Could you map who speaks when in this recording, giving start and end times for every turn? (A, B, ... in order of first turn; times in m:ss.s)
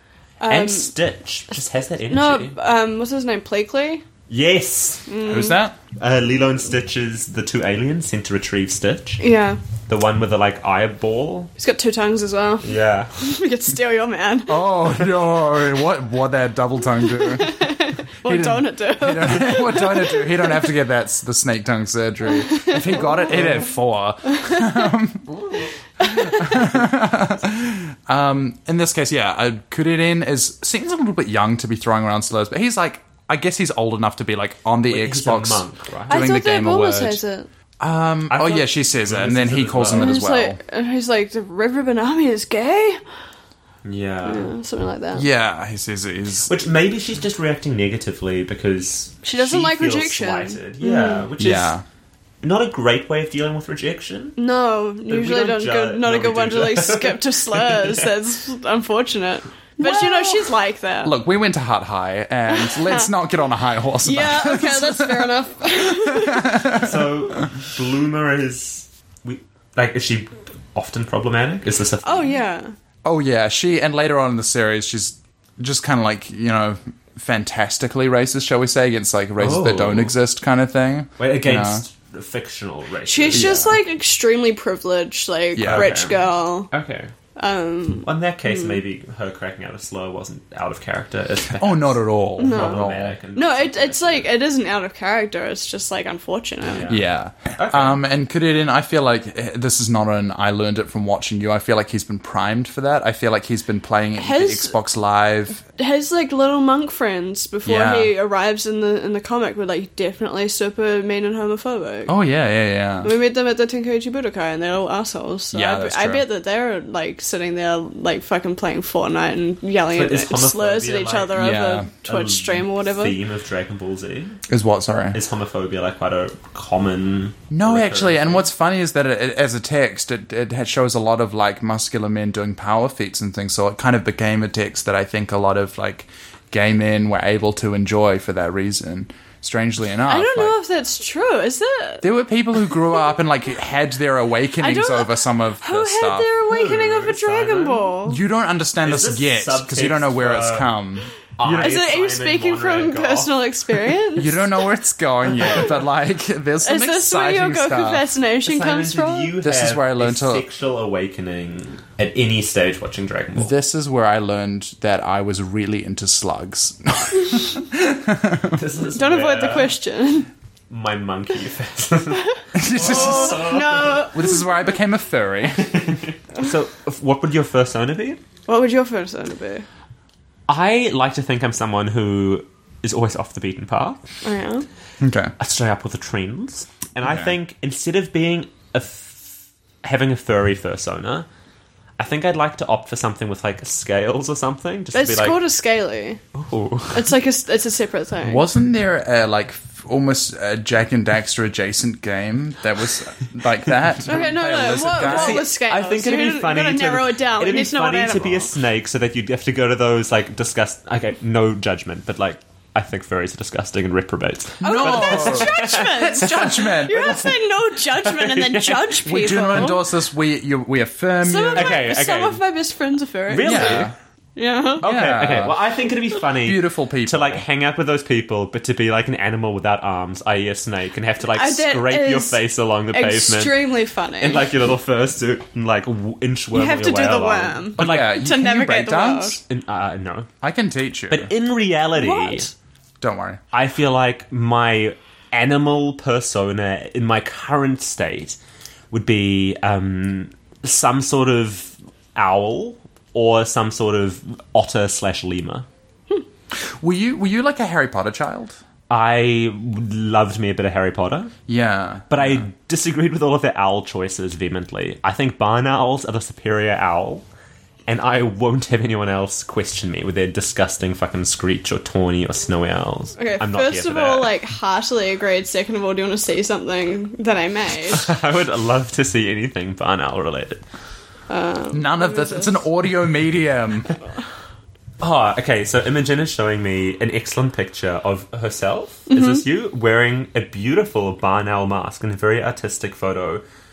0:00.4-0:00.9 A
0:00.5-0:02.6 B
0:02.1-0:04.0 A
0:04.3-0:05.1 B
0:05.1-0:05.6 A
0:05.3-0:05.8 C
0:06.0-0:09.2 B
0:09.2-0:09.6 A
0:09.9-0:11.5 B
0:11.6-0:14.6 A
0:12.6-0:13.1 B
0:14.5-0:17.6 C
0:17.2-0:20.6 A
0:18.2-0:25.4 C
0:22.5-0:23.1 A
0:26.0-0:37.2 C
0:26.1-0:26.5 A
0:34.9-0:36.2 B
0:36.1-0:37.5 A
0:37.8-0:40.6 C
0:38.3-0:40.2 B
0:40.0-0:43.0 A
0:43.8-0:44.5 B
0:44.2-0:45.3 A
0:45.2-0:46.5 C
0:46.5-0:51.8 B
0:49.2-0:51.3 A
0:51.4-0:51.8 C
0:52.4-0:54.4 B
0:54.4-1:01.2 A
0:55.1-0:58.1 B
0:59.8-1:00.2 C
1:01.0-1:05.3 C
1:02.6-1:03.1 A
1:04.0-1:06.7 A
1:05.8-1:07.1 C
1:06.7-1:12.4 B
1:12.0-1:12.7 A
1:13.0-1:21.8 C
1:19.4-1:20.1 B
1:21.2-1:23.5 B
1:23.0-1:26.7 A
1:23.3-1:23.8 C
1:25.6-1:26.0 C
1:25.6-1:27.1 B
1:27.4-1:28.8 A
1:28.0-1:34.4 B
1:31.6-1:33.2 C
1:32.4-1:36.9 A
1:36.7-1:37.0 B
1:36.9-1:45.7 C
1:37.6-1:38.0 B
1:44.2-1:44.8 A
1:45.7-1:52.1 A
1:47.6-1:48.1 C
1:52.1-1:53.1 C
1:53.0-2:03.2 A
1:55.5-1:56.3 C
1:59.9-2:01.4 B
2:01.3-2:01.9 C
2:02.0-2:04.4 B
2:04.5-2:05.2 C
2:05.1-2:08.5 B
2:07.5-2:20.6 C
2:20.1-2:22.0 A
2:22.0-2:26.3 C
2:24.6-2:28.2 A
2:26.4-2:27.9 B
2:28.1-2:31.7 C
2:28.8-2:30.7 B
2:31.4-2:33.4 B
2:31.5-2:34.4 A
2:34.2-2:38.1 C
2:36.6-2:39.3 A
2:38.4-2:43.5 B
2:39.4-2:40.4 C
2:43.4-2:48.6 C
2:48.5-2:49.8 B
2:48.9-2:50.3 A
2:50.7-2:54.1 B
2:52.6-2:55.7 C
2:52.8-2:54.5 A
2:55.5-2:58.2 B
2:58.5-2:59.7 A
3:00.5-3:04.0 B
3:04.2-3:04.7 A
3:05.0-3:05.3 C
3:05.4-3:11.3 B
3:07.0-3:07.3 C
3:12.0-3:15.4 B
3:14.9-3:16.2 A
3:16.3-3:17.1 B
3:16.9-3:18.4 A
3:18.2-3:25.5 C
3:24.1-3:28.5 A
3:24.9-3:36.4 B
3:34.6-3:37.4 C
3:34.6-3:39.8 A
3:37.9-3:39.0 B
3:39.0-3:41.9 C
3:41.2-3:44.8 A
3:41.5-3:42.4 B
3:43.3-3:43.9 B
3:43.4-3:43.9 C
3:44.8-3:45.6 C
3:44.8-3:58.2 B
3:46.3-3:47.4 C
3:51.3-3:52.4 A
3:52.9-3:54.5 A
3:56.5-3:59.4 A
3:57.8-3:59.4 C
3:59.5-4:00.3 B
4:00.4-4:01.3 C
4:01.1-4:02.5 B
4:02.0-4:02.5 A
4:03.0-4:03.4 C
4:03.5-4:08.4 B
4:08.9-4:15.7 B
4:16.7-4:18.6 C
4:18.9-4:21.4 B
4:21.5-4:22.4 C
4:22.1-4:27.2 B
4:27.9-4:34.3 B
4:33.2-4:38.1 A
4:37.9-4:40.6 B
4:41.3-4:42.6 A
4:41.7-4:43.9 C
4:45.0-4:53.4 B
4:49.1-4:49.4 A